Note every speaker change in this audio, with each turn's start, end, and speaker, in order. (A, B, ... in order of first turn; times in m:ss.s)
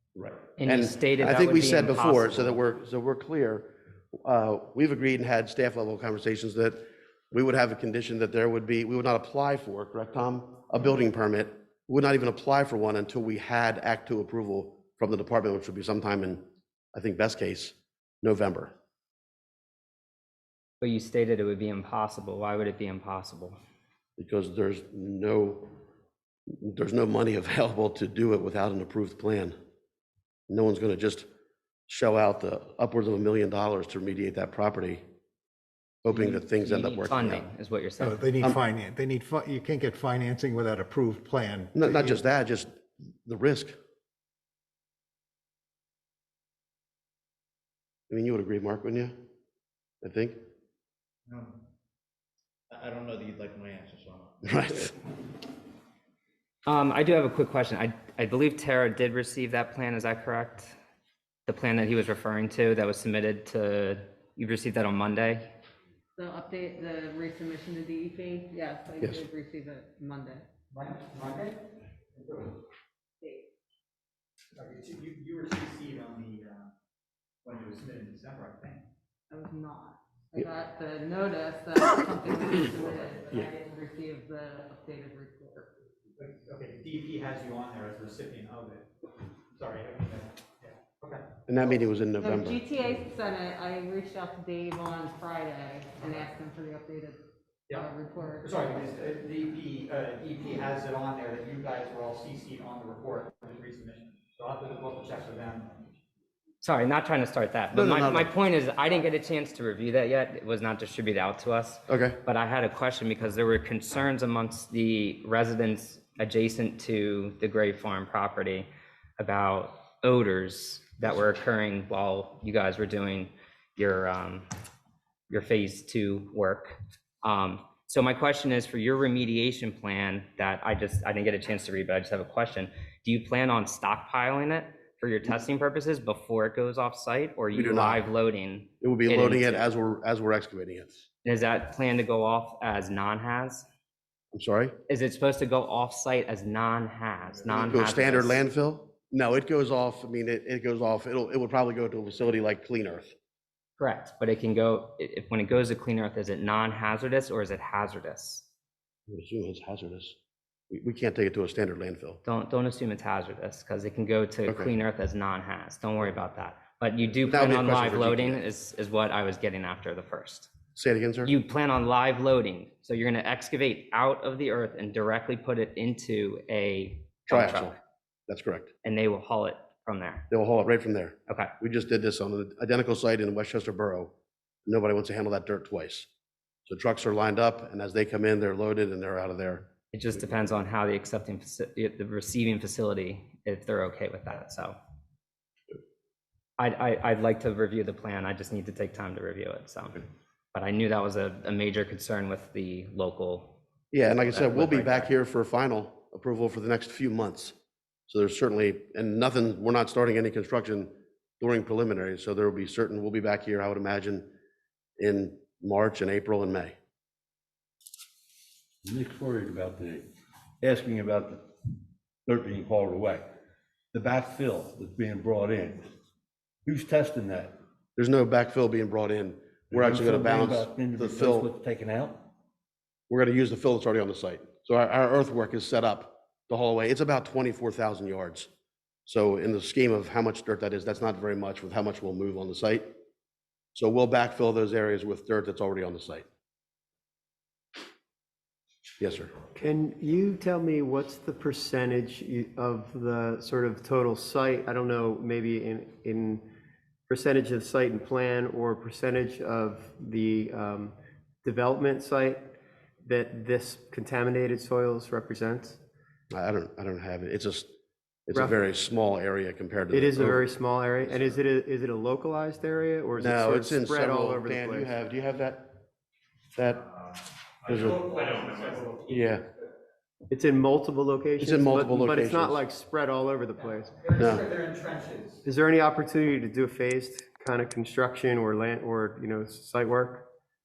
0:00.2-0:18.7 A
0:00.6-0:02.6 B
0:20.8-0:23.6 B
0:24.2-0:25.7 A
0:26.6-0:29.6 A
0:30.5-0:31.3 A
0:31.9-0:35.0 A
0:36.0-0:37.5 A
0:36.1-0:38.2 B
0:38.0-0:42.2 C
0:41.8-0:42.7 A
0:43.2-0:43.8 A
0:48.1-0:49.1 A
0:50.0-0:50.4 A
0:51.3-0:51.6 D
0:52.7-0:54.4 D
0:54.4-0:54.9 A
0:56.7-1:00.8 B
1:01.5-1:05.4 B
1:06.2-1:10.4 E
1:10.7-1:11.6 F
1:12.2-1:12.6 F
1:14.6-1:16.7 F
1:17.4-1:18.8 F
1:19.3-1:25.7 E
1:26.2-1:28.9 F
1:29.6-1:31.2 F
1:31.5-1:32.6 A
1:32.2-1:37.2 E
1:37.7-1:46.0 F
1:37.7-1:38.6 E
1:46.6-1:58.7 B
1:47.7-1:48.3 A
1:51.9-1:52.2 A
1:59.2-2:04.5 B
2:05.3-2:19.6 B
2:17.5-2:18.0 A
2:18.8-2:21.0 A
2:21.2-2:23.6 B
2:24.3-2:24.7 A
2:24.9-2:28.4 B
2:27.5-2:33.1 A
2:33.8-2:38.4 B
2:39.1-2:40.2 A
2:40.7-2:42.2 A
2:42.2-2:50.5 B
2:44.5-2:44.7 A
2:47.3-2:48.4 A
2:50.7-2:51.3 A
2:51.2-2:57.8 B
2:57.3-2:57.8 A
2:58.3-2:58.7 A
2:58.8-3:00.3 B
3:00.3-3:04.1 A
3:04.7-3:06.1 A
3:06.7-3:09.7 A
3:09.9-3:14.8 B
3:16.6-3:25.1 B
3:23.9-3:27.5 A
3:28.1-3:34.3 A
3:35.0-3:36.7 A
3:38.8-3:40.1 G
3:40.6-3:41.4 G
3:42.2-3:43.2 G
3:43.9-3:45.9 G
3:46.7-3:47.6 G
3:48.0-3:51.5 A
3:49.7-3:52.3 G
3:53.1-3:58.5 A
3:59.0-4:02.9 A
4:03.7-4:06.2 A
4:09.0-4:09.3 A
4:09.5-4:16.4 H
4:17.1-4:22.5 H
4:23.0-4:25.8 H
4:26.3-4:27.7 A
4:28.2-4:30.5 A
4:29.9-4:34.9 H
4:33.2-4:35.8 A
4:36.6-4:36.9 A
4:37.6-4:38.0 A
4:37.6-4:39.3 F
4:39.1-4:39.4 A
4:40.3-4:44.0 H
4:41.4-4:42.6 A
4:44.0-4:45.4 F
4:44.2-4:44.4 A
4:45.4-4:50.2 H